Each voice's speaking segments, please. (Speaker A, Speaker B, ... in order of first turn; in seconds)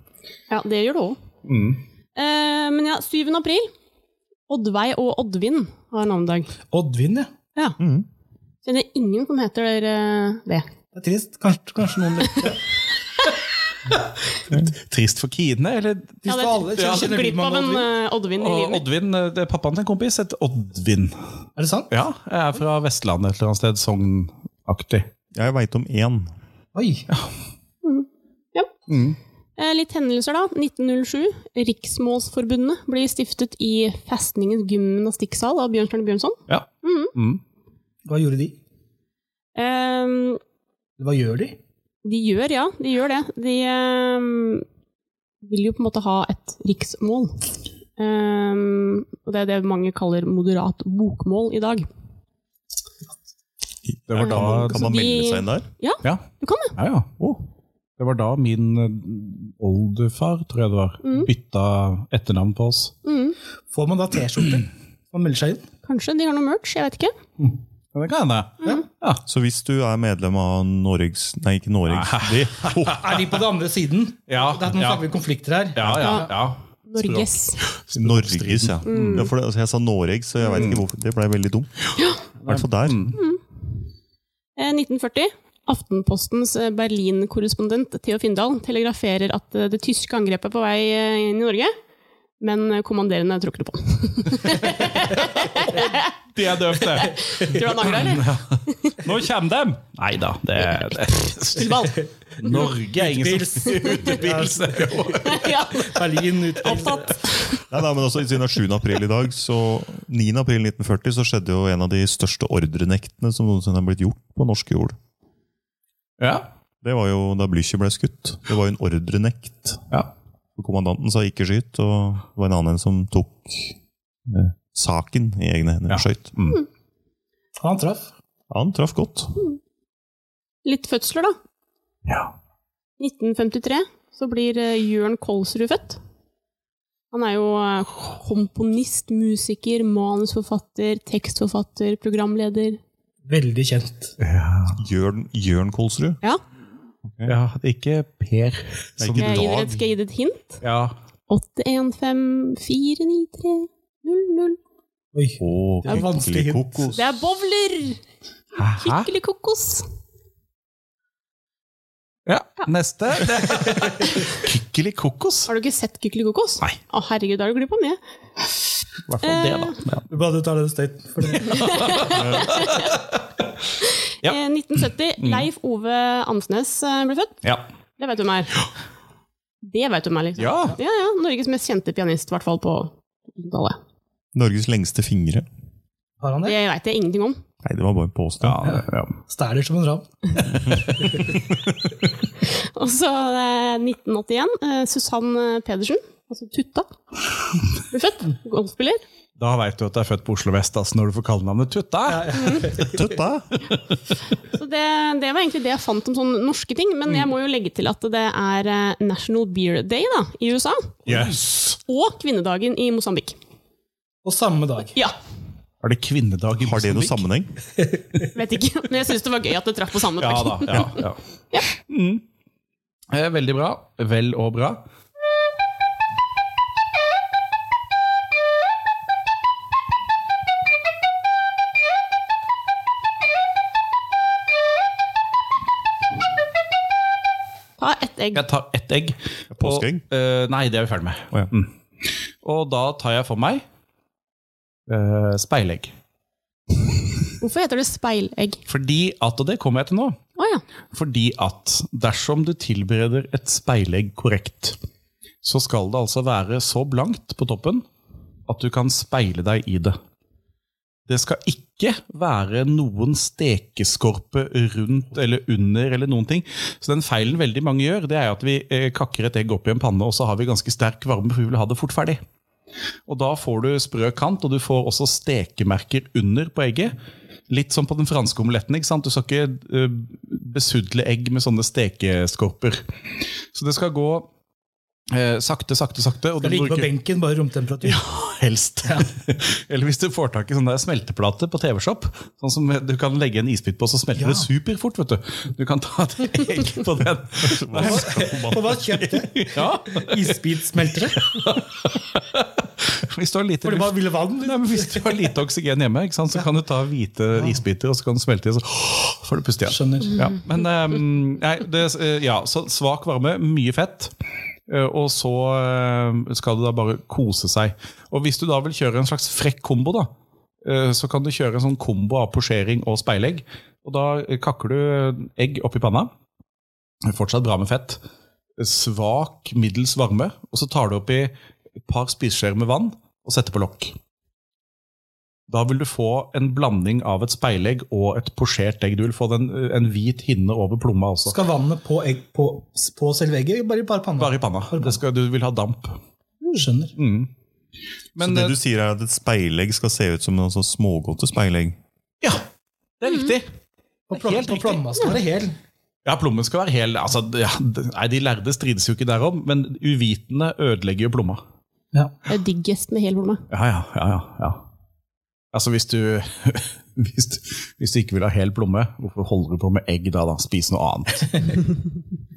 Speaker A: 0.5-1.2, 2.1-3.7, 4.5-6.5, 8.6-10.7, 16.2-18.8, 27.8-28.7, 29.6-37.1, 39.5-40.4, 42.0-44.6, 45.4-47.4, 48.0-51.9, 54.2-56.7, 61.0-61.3, 63.0-63.4, 65.8-67.1, 76.0-76.3, 76.9-77.6, 78.8-79.3, 82.0-82.2, 83.1-83.4, 84.5-91.7, 92.4-99.1, 100.6-102.6, 105.2-107.6, 130.6-131.4, 133.0-136.0, 137.1-142.8, 149.2-150.6, 151.3-154.6, 156.9-158.0, 158.8-159.9, 165.5-168.6, 169.2-169.7, 171.4-172.9, 174.2-177.4, 178.0-178.6, 179.6-183.8, 186.4-187.4, 192.4-196.9, 197.8-199.0, 202.3-202.7, 204.4-211.0, 211.8-213.4, 218.3-221.0, 237.8-238.4, 247.4-248.6, 250.4-250.6, 362.3-363.4
Speaker B: 1.4-1.8, 14.5-17.1, 18.4-21.2, 21.9-25.1, 28.9-29.2, 36.5-37.4, 54.1-54.8, 56.0-57.1, 58.0-62.9, 67.9-69.2, 71.9-73.3, 74.3-75.0, 75.8-79.3, 80.6-80.8, 82.4-83.2, 96.3-106.0, 116.2-116.5, 125.9-126.6, 132.1-132.3, 144.2-144.8, 147.2-149.5, 150.6-150.9, 158.5-159.1, 162.2-165.5, 169.1-170.1, 171.4-173.2, 175.2-175.4, 180.4-180.8, 188.4-189.2, 199.4-202.9, 203.5-204.2, 211.1-211.8, 215.8-217.2, 220.2-222.2, 223.1-224.8, 238.3-243.6, 244.9-245.9, 248.7-250.2, 250.9-254.8, 255.4-257.9, 258.5-260.0, 261.1-272.2, 273.1-276.9, 277.5-282.9, 283.5-284.3, 285.1-286.9, 287.8-298.0, 299.3-300.2, 301.2-314.1, 314.7-320.1, 320.6-326.1, 327.0-328.0, 328.6-333.9, 335.5-341.4, 344.2-346.0, 346.9-347.3, 348.1-348.6, 352.2-352.4, 353.0-353.5, 354.1-354.9, 356.0-361.4, 363.5-364.6, 365.5-371.5
Speaker C: 6.7-7.3, 10.9-12.6, 16.2-17.9, 21.6-21.9, 26.7-27.1, 38.1-38.6, 41.0-41.6, 63.7-65.6, 73.0-76.3, 102.4-107.2, 127.6-128.1, 143.3-144.2, 155.1-156.9, 170.1-171.8, 186.2-186.6, 188.7-191.3, 202.1-203.0, 214.2-215.0, 286.4-288.0, 288.8-289.1, 294.2-294.5, 297.7-301.4, 303.6-305.3, 309.7-310.2, 341.3-345.0, 346.4-346.9, 354.1-355.6
Speaker D: 7.8-8.1, 25.3-26.3, 53.9-55.6, 57.2-57.4, 69.2-73.0, 77.9-81.8, 82.4-83.1, 107.7-115.0, 116.8-119.8, 120.5-126.3, 128.5-129.3, 144.8-146.2, 147.0-147.3, 149.0-149.8, 155.4-157.1, 172.1-172.6, 184.3-185.4, 187.6-188.6, 202.9-203.5, 216.6-217.5, 239.5-240.0, 297.4-299.3, 348.2-351.8